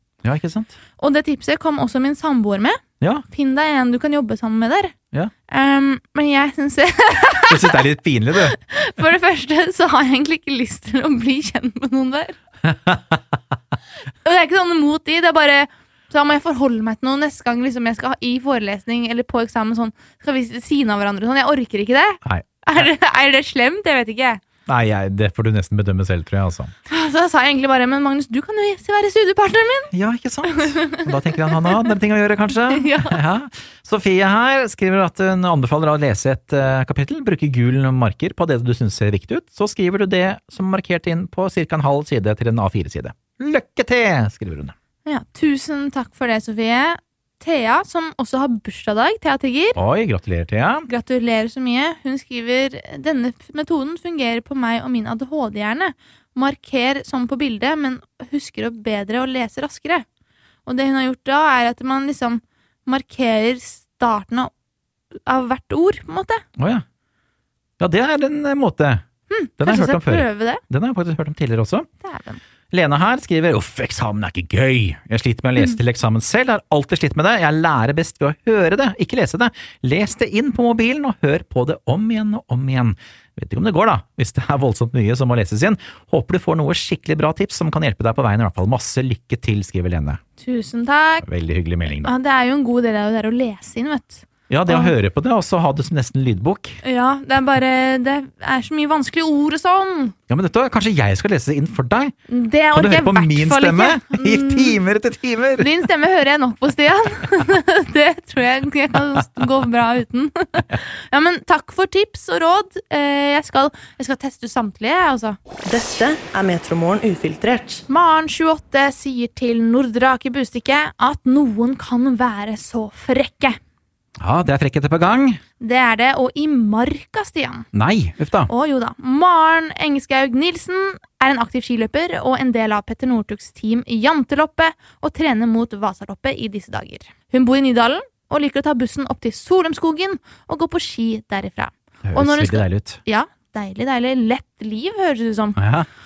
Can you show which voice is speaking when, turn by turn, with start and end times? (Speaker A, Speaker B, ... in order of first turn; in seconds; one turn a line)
Speaker A: 0.2-0.7
Speaker B: 1.0-5.0
Speaker B: 5.5-7.8
Speaker A: 7.5-8.6
Speaker B: 8.5-12.4
Speaker B: 14.1-24.4
Speaker A: 22.2-22.9
Speaker A: 24.7-26.7
Speaker B: 26.9-29.9
Speaker A: 29.9-44.7
Speaker B: 30.6-31.8
Speaker B: 32.7-33.2
Speaker B: 45.0-49.8
Speaker A: 49.8-50.9
Speaker B: 50.9-60.0
Speaker B: 60.7-64.5
Speaker B: 65.3-66.4
Speaker A: 66.6-66.8
Speaker A: 67.8-69.0
Speaker B: 69.3-70.6
Speaker A: 69.6-71.9
Speaker B: 72.0-72.4
Speaker A: 72.7-90.2
Speaker B: 90.4-91.3
Speaker A: 91.2-92.1
Speaker B: 92.0-95.0
Speaker A: 94.5-96.8
Speaker B: 96.8-100.2
Speaker A: 100.3-102.1
Speaker B: 102.3-104.8
Speaker A: 102.7-105.7
Speaker B: 105.6-115.4
Speaker C: 115.7-117.8
Speaker B: 117.9-123.6
Speaker A: 124.2-125.4
Speaker B: 125.6-127.7
Speaker A: 127.7-128.5
Speaker B: 128.5-145.6
Speaker A: 142.1-143.0
Speaker A: 145.6-145.9